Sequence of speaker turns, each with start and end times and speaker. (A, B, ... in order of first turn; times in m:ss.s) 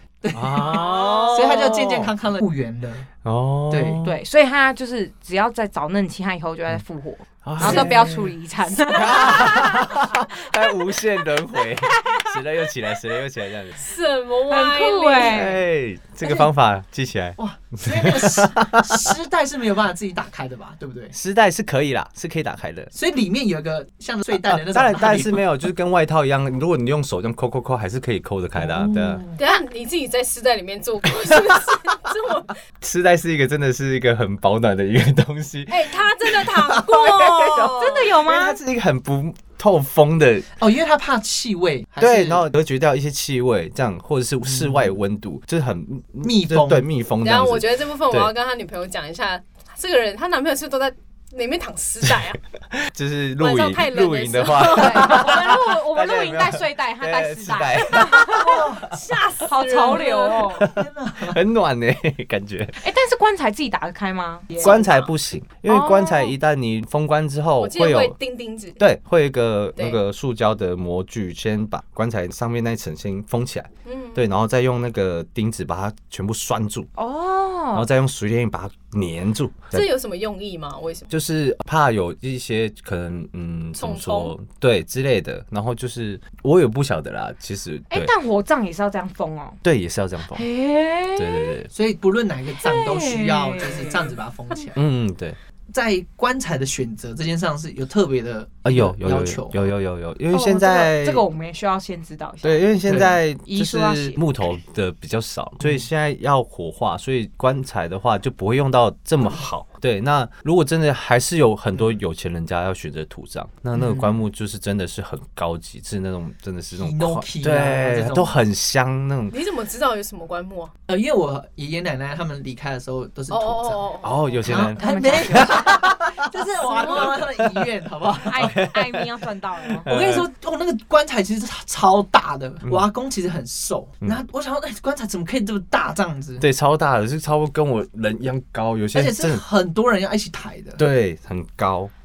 0:00.2-0:03.1 A
0:00.3-0:02.1 B
0:03.2-0:04.2 B
0:03.7-0:04.0 A
0:04.0-0:10.2 C
0:07.4-0:08.3 B
0:07.6-0:08.2 A
0:08.9-0:13.8 B
0:13.8-0:15.5 D
0:14.5-0:15.6 C
0:15.2-0:19.1 B
0:17.4-0:21.2 A
0:21.1-0:22.9 B
0:22.9-0:25.4 A
0:24.3-0:29.2 B
0:28.6-0:29.4 A
0:29.4-0:32.6 D
0:31.2-0:31.6 B
0:32.8-0:40.5 B
0:35.7-0:38.0 D
0:37.6-0:38.6 C
0:40.6-0:42.5 A
0:42.0-0:48.3 B
0:44.4-0:44.9 A
0:46.2-0:46.8 A
0:47.2-0:52.4 D
0:52.7-0:58.4 B
0:53.4-0:55.4 D
0:54.7-0:58.6 C
0:57.9-1:00.6 D
0:58.4-0:59.0 A
0:59.5-1:00.7 C
1:00.6-1:01.4 A
1:00.6-1:02.8 B
1:02.8-1:04.6 C
1:04.6-1:05.1 D
1:04.6-1:08.2 B
1:05.7-1:06.4 C
1:07.6-1:08.8 D
1:08.8-1:16.9 B
1:13.9-1:14.3 D
1:17.0-1:17.9 C
1:17.7-1:19.9 B
1:19.7-1:21.1 D
1:21.1-1:28.1 B
1:23.8-1:24.4 D
1:27.9-1:29.6 C
1:29.6-1:30.4 B
1:30.3-1:31.6 C
1:31.2-1:31.7 B
1:31.7-1:34.8 A
1:32.6-1:34.1 C
1:34.8-1:35.4 B
1:35.7-1:39.7 A
1:38.6-1:41.3 B
1:40.3-1:44.2 C
1:42.4-1:59.4 B
1:42.9-1:43.1 A
1:53.7-1:54.2 A
1:56.7-1:58.3 A
1:59.3-2:00.7 D
2:00.9-2:03.9 A
2:03.3-2:04.4 D
2:04.0-2:06.3 B
2:04.4-2:08.6 A
2:04.8-2:05.6 C
2:06.6-2:07.2 D
2:06.9-2:07.7 B
2:08.3-2:09.9 C
2:08.4-2:09.1 B
2:09.6-2:10.3 B
2:09.9-2:16.5 A
2:16.4-2:19.4 B
2:18.9-2:20.8 A
2:20.8-2:21.9 B